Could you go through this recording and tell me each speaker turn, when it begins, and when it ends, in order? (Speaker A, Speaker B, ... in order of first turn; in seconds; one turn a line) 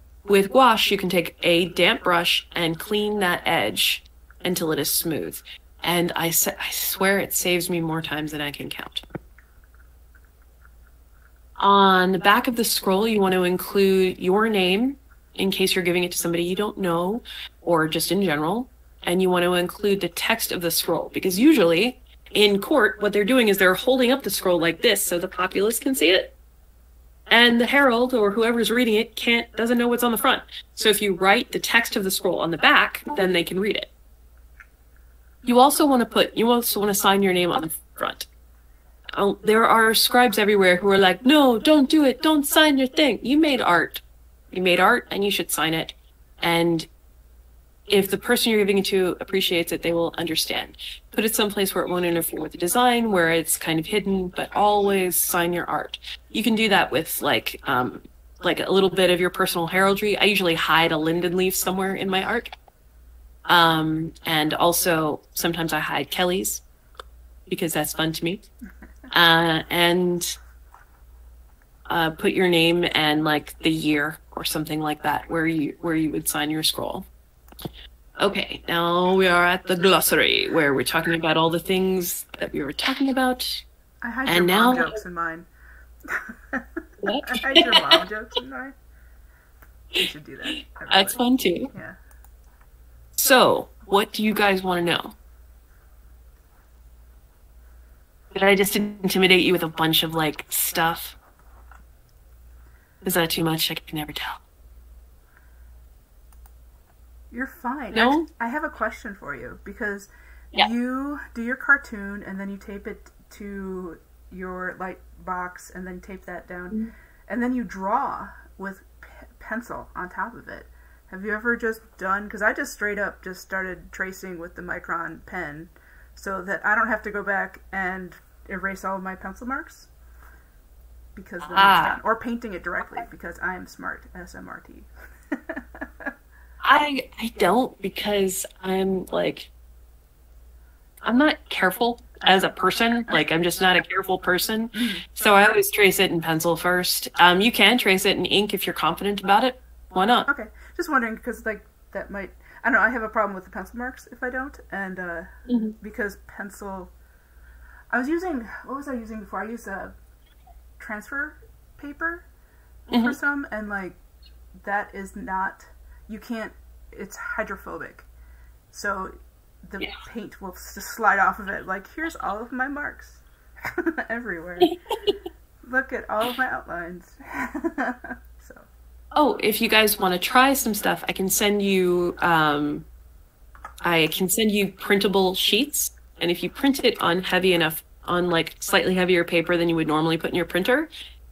Speaker A: 0.2-9.0
Speaker A: 11.6-26.3
Speaker A: 27.3-33.9
Speaker A: 35.4-38.2
Speaker A: 39.2-46.9
Speaker A: 47.9-62.5
Speaker A: 63.5-66.6
Speaker A: 67.5-68.4
Speaker A: 69.1-70.3
Speaker A: 71.9-77.0
Speaker A: 78.2-83.6
Speaker B: 84.0-85.5
Speaker A: 84.2-84.9
Speaker B: 86.1-88.8
Speaker A: 87.0-88.0
Speaker B: 89.9-92.0
Speaker A: 90.9-91.7
Speaker A: 93.2-95.1
Speaker A: 98.3-101.2
Speaker A: 103.0-104.4
Speaker B: 107.3-129.9
Speaker A: 107.9-108.3
Speaker B: 131.1-136.1
Speaker A: 131.5-132.0
Speaker A: 136.6-139.5
Speaker A: 141.0-150.3
Speaker B: 144.7-145.1
Speaker B: 150.3-156.9
Speaker A: 155.5-155.7
Speaker B: 157.9-160.0
Speaker B: 160.8-162.3
Speaker A: 162.9-163.2
Speaker B: 162.9-164.0
Speaker B: 164.6-168.1
Speaker B: 168.7-174.8
Speaker B: 175.6-178.7
Speaker A: 179.1-182.8
Speaker A: 183.8-190.9